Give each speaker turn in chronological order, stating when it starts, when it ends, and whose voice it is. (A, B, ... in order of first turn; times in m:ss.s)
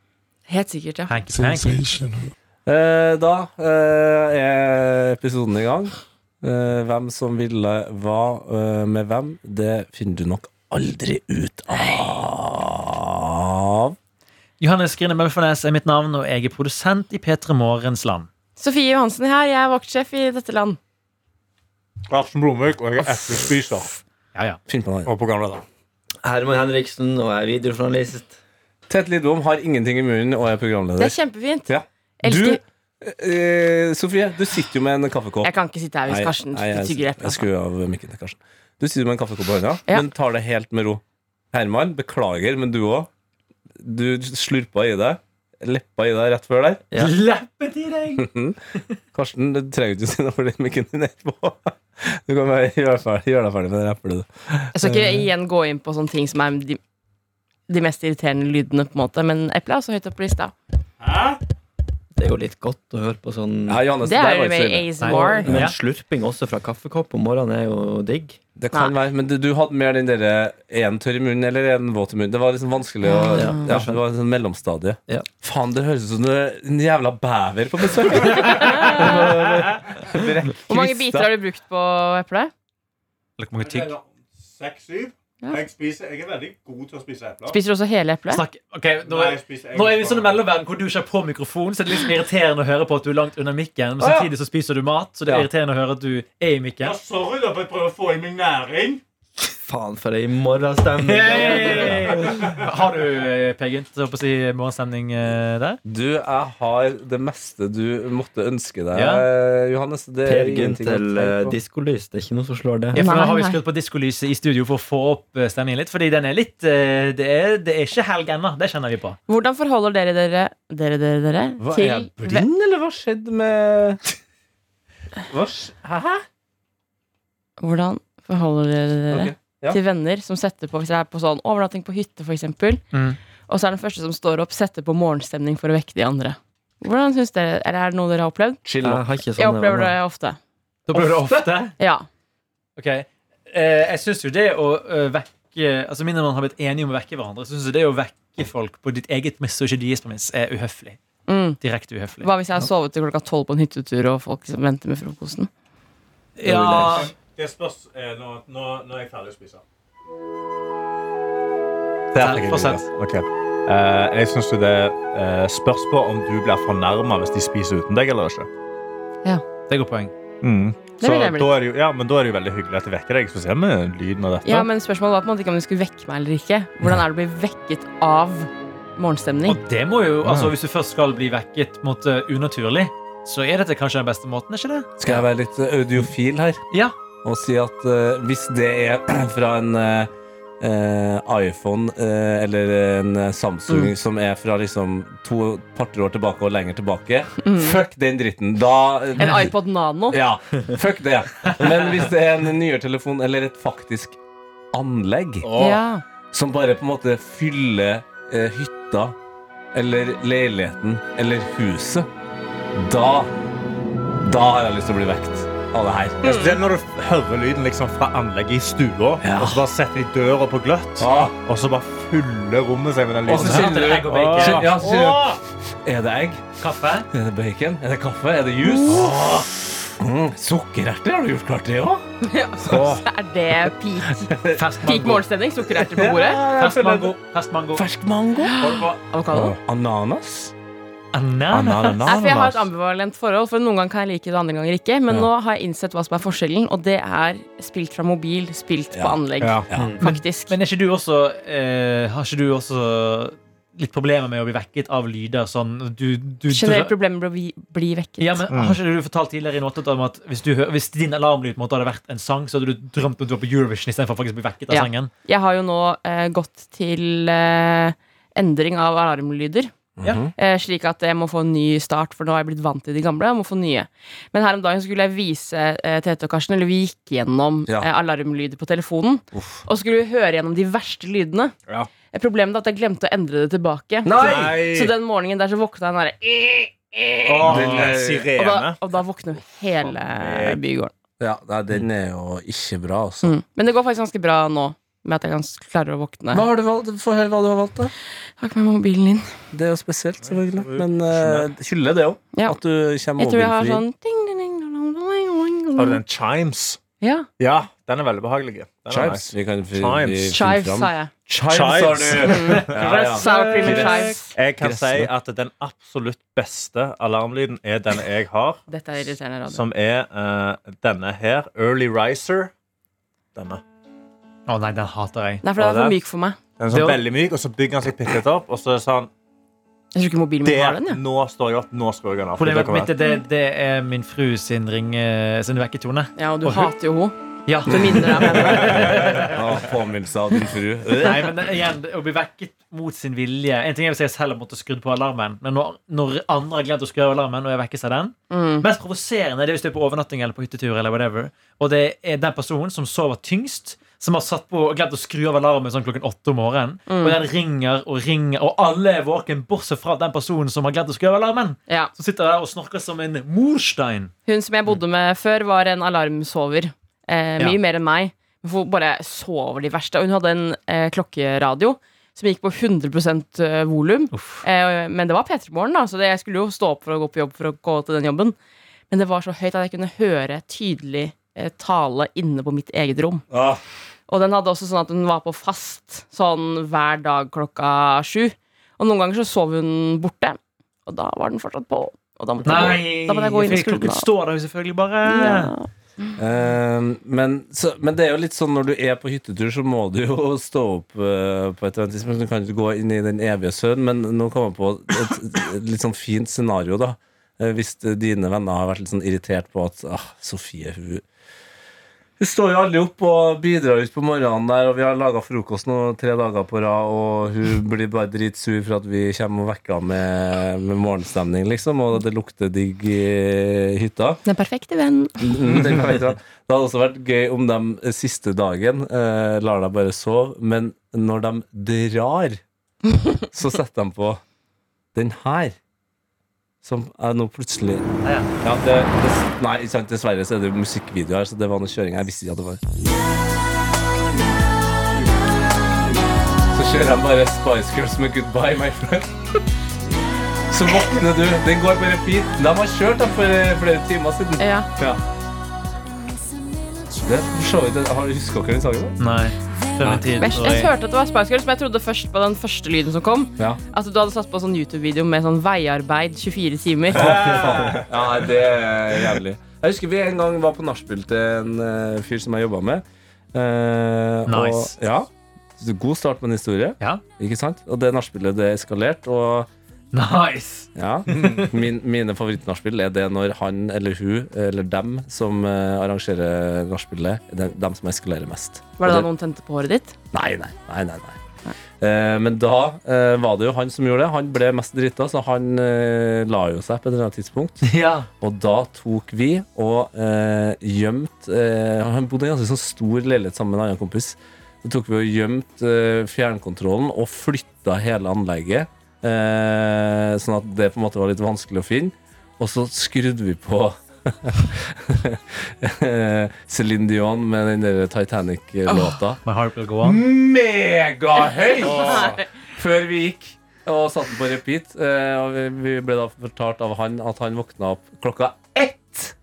0:00.5-0:01.2 A
0:01.1-0:02.1 B
0:02.6-0:14.0 C
0:14.6-0:18.3 B
0:18.6-0:20.8 A
0:22.1-0:23.9 D
0:24.7-0:25.1 C
0:25.0-0:25.6 D
0:26.2-0:28.3 E
0:28.9-0:35.5 C
0:31.0-0:31.7 A
0:32.2-0:32.6 A
0:35.4-0:37.5 A
0:36.1-0:43.1 C
0:43.8-0:46.8 C
0:47.0-0:48.3 B
0:48.2-0:48.6 C
0:49.1-0:55.3 C
0:54.7-0:56.8 A
0:57.7-1:00.5 A
1:01.0-1:01.4 D
1:02.2-1:03.8 E
1:03.7-1:04.9 C
1:04.0-1:05.5 A
1:05.0-1:05.8 B
1:05.0-1:08.4 E
1:08.6-1:21.3 C
1:13.0-1:13.7 A
1:13.3-1:14.0 E
1:18.3-1:19.2 A
1:18.9-1:19.9 D
1:20.7-1:22.5 A
1:23.4-1:23.9 B
1:23.6-1:27.6 D
1:27.5-1:28.4 A
1:28.3-1:37.0 B
1:29.0-1:30.4 D
1:34.0-1:34.3 C
1:36.8-1:39.0 D
1:39.6-1:42.5 E
1:41.0-1:45.8 B
1:45.8-1:51.6 C
1:48.9-1:49.2 B
1:50.2-1:53.0 E
1:52.9-1:59.2 B
1:52.9-1:53.6 A
1:59.3-2:02.4 A
2:01.6-2:04.0 C
2:05.3-2:06.2 C
2:07.6-2:12.8 A
2:09.1-2:09.8 C
2:12.9-2:13.2 B
2:13.5-2:18.6 A
2:18.6-2:19.0 C
2:18.8-2:20.0 E
2:19.4-2:20.4 A
2:20.9-2:21.7 B
2:20.9-2:21.5 C
2:21.8-2:22.0 A
2:22.8-2:31.0 B
2:31.3-2:31.6 A
2:31.6-2:32.3 B
2:32.2-2:35.5 A
2:36.4-2:37.1 B
2:36.4-2:37.1 C
2:36.5-2:39.6 D
2:42.1-2:48.5 D
2:42.1-2:42.8 B
2:49.7-2:50.1 B
2:50.4-2:54.7 D
2:51.0-2:51.5 A
2:54.4-2:59.6 A
2:59.4-3:05.2 B
3:00.2-3:00.5 D
3:05.0-3:06.6 C
3:07.2-3:19.5 C
3:17.4-3:17.8 A
3:19.2-3:20.2 A
3:20.1-3:24.2 C
3:24.7-3:25.6 C
3:25.5-3:26.0 A
3:26.3-3:29.1 C
3:29.7-3:32.1 C
3:32.7-3:33.3 C
3:34.2-3:36.3 C
3:36.2-3:45.4 D
3:36.2-3:36.5 A
3:39.2-3:39.6 C
3:41.0-3:41.3 C
3:43.2-3:46.4 C
3:43.3-3:44.7 B
3:46.6-3:47.1 B
3:47.1-3:52.0 C
3:48.6-3:48.9 A
3:52.2-3:56.4 A
3:52.7-3:53.0 D
3:52.7-3:53.0 C
3:54.2-3:57.2 C
3:54.5-3:55.2 B
3:56.6-3:57.8 B
3:57.7-3:58.8 C
3:58.4-3:59.5 A
3:58.6-3:59.0 B
3:59.3-4:00.5 C
4:01.1-4:02.3 B
4:01.5-4:02.6 D
4:02.0-4:10.5 A
4:08.9-4:10.0 C
4:09.4-4:09.7 D
4:10.0-4:16.9 B
4:16.5-4:18.4 A
4:18.2-4:25.1 B
4:18.5-4:18.8 D
4:24.7-4:29.7 A
4:30.0-4:30.3 C
4:30.4-4:41.5 A
4:39.3-4:39.6 C
4:42.1-4:50.9 A
4:44.0-4:44.7 C
4:44.2-4:44.9 D
4:47.2-4:48.8 D
4:47.4-4:48.3 C
4:50.2-4:50.6 D
4:51.2-4:53.3 C
4:53.2-4:56.4 A
4:56.3-4:57.9 C
4:58.4-4:59.3 A
4:59.5-5:03.8 C
5:00.3-5:01.5 D
5:03.2-5:06.0 A
5:05.7-5:06.8 D
5:07.0-5:07.3 A
5:07.4-5:10.3 D
5:08.9-5:15.1 C
5:10.3-5:11.1 A
5:11.5-5:18.6 D
5:12.2-5:14.3 A
5:18.7-5:19.6 A
5:19.5-5:22.5 D
5:23.3-5:23.6 D
5:24.5-5:25.9 B
5:25.4-5:26.4 A
5:26.6-5:29.1 D
5:26.7-5:27.0 B
5:29.9-5:31.0 A
5:30.4-5:32.9 D
5:32.4-5:36.7 B
5:36.2-5:39.0 A
5:37.5-5:39.4 B
5:38.7-5:41.4 C
5:39.0-5:39.3 D
5:41.0-6:04.1 B
5:48.3-5:48.6 A
5:56.9-5:57.2 A
6:04.3-6:18.4 A
6:14.1-6:14.4 B
6:18.9-6:23.2 A
6:23.3-6:23.6 C
6:24.1-6:34.1 A
6:32.4-6:32.8 C
6:32.4-6:35.5 B
6:35.0-6:35.7 A
6:36.2-6:51.0 C
6:52.2-7:04.2 C
7:04.2-7:05.3 A
7:05.2-7:12.4 C
7:13.3-7:14.2 C
7:14.9-7:15.6 C
7:16.6-7:17.9 C
7:18.0-7:18.3 B
7:18.4-7:22.6 C
7:26.5-7:29.4 C
7:30.5-7:35.0 C
7:34.4-7:34.7 A
7:36.9-7:39.0 C
7:39.0-7:40.7 B
7:39.8-7:40.1 D
7:40.2-7:47.3 A
7:46.9-7:47.9 D
7:46.9-7:59.5 C
7:54.2-7:54.7 B
7:59.9-8:01.5 B
8:00.7-8:09.0 C
8:08.8-8:09.9 A
8:10.1-8:11.2 C
8:11.8-8:39.2 C
8:17.6-8:18.1 B
8:39.2-8:40.0 B
8:39.8-8:49.1 C
8:41.6-8:42.2 D